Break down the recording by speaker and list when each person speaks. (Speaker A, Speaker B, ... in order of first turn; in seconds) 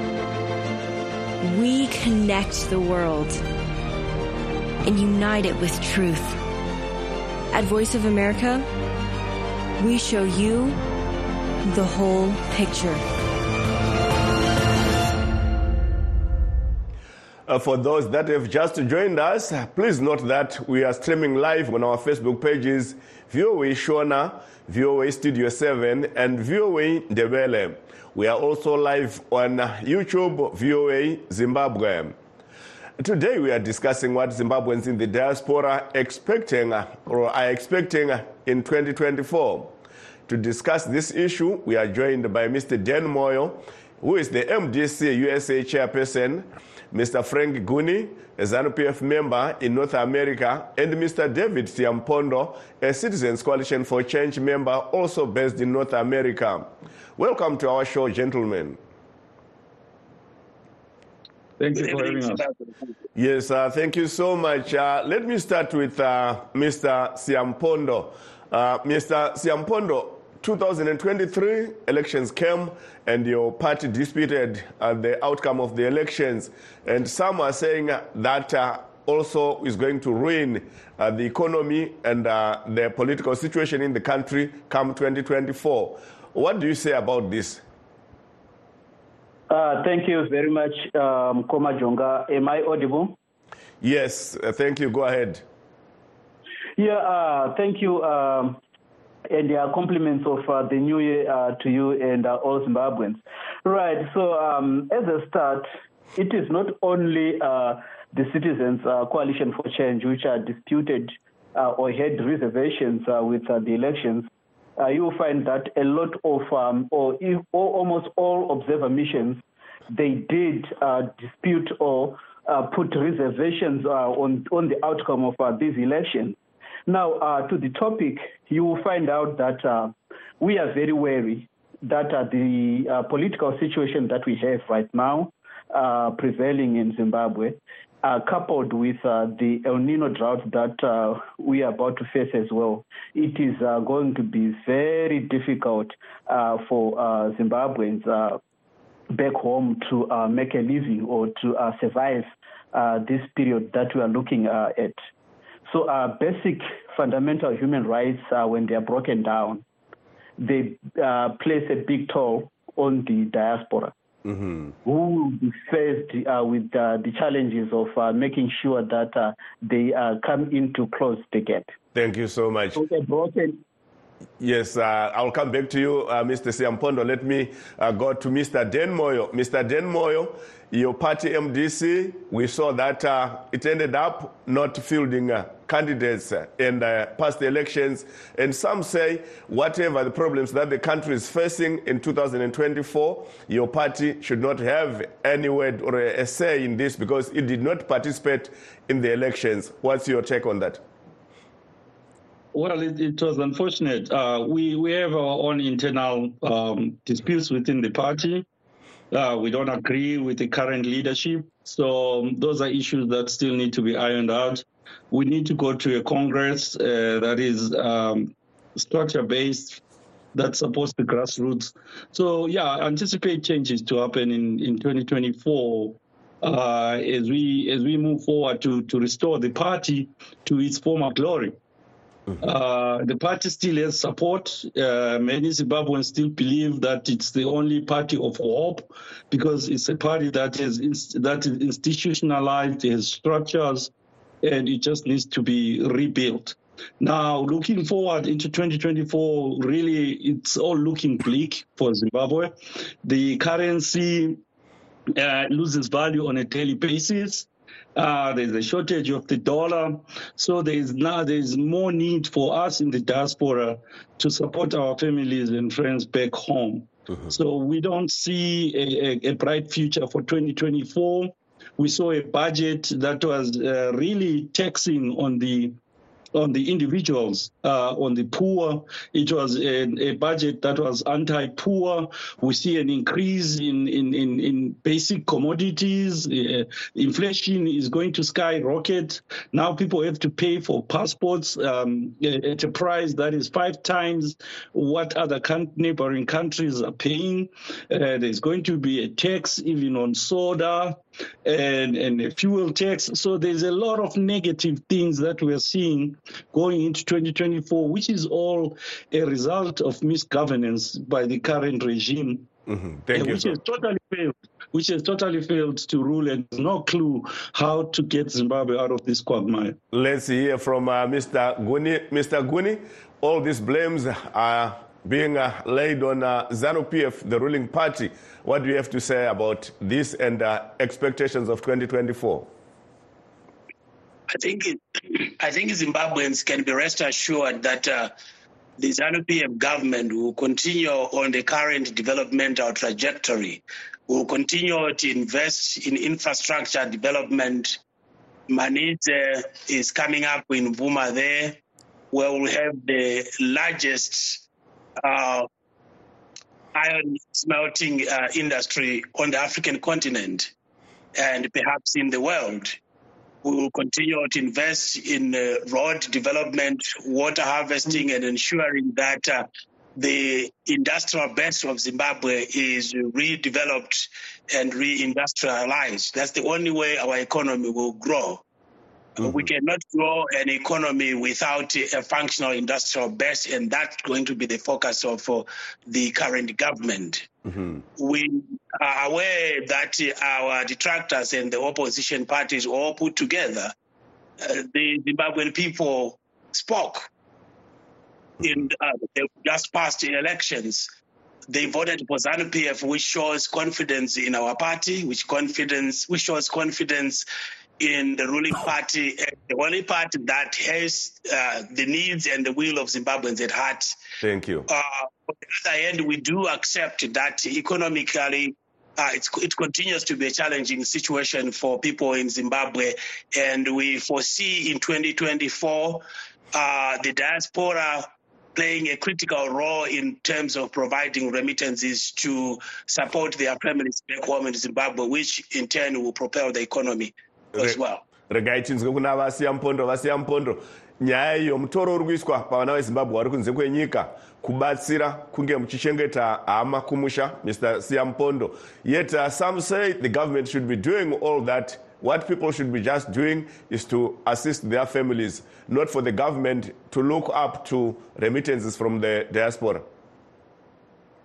Speaker A: 1.4-3.4, 4.8-6.4, 7.5-8.7, 9.8-10.8, 11.7-13.0
Speaker B: 17.5-32.2, 33.0-39.8, 40.3-58.8, 63.2-87.6, 93.8-95.4, 164.3-164.7, 171.9-172.8, 174.4-200.8, 312.7-313.6, 319.9-332.5, 387.5-387.8, 414.2-414.7, 437.6-459.9
Speaker C: 61.6-62.4, 202.5-208.4, 209.1-219.8, 220.3-231.6, 232.4-243.9, 244.4-254.4, 255.2-275.8, 276.3-312.5, 313.1-319.8
Speaker D: 61.8-62.7, 334.3-338.1, 338.8-347.8, 348.5-351.6, 352.1-354.4, 355.0-355.5, 356.7-360.5, 361.2-362.8, 363.4-378.4, 379.2-387.3, 388.0-393.7, 394.4-397.1, 398.4-400.9, 401.5-407.3, 407.8-414.0, 414.7-438.0
Speaker E: 89.5-93.2, 96.8-98.6, 99.3-126.4, 126.9-148.4, 149.1-155.0, 155.7-159.6, 160.4-163.9, 164.8-171.7, 172.8-173.6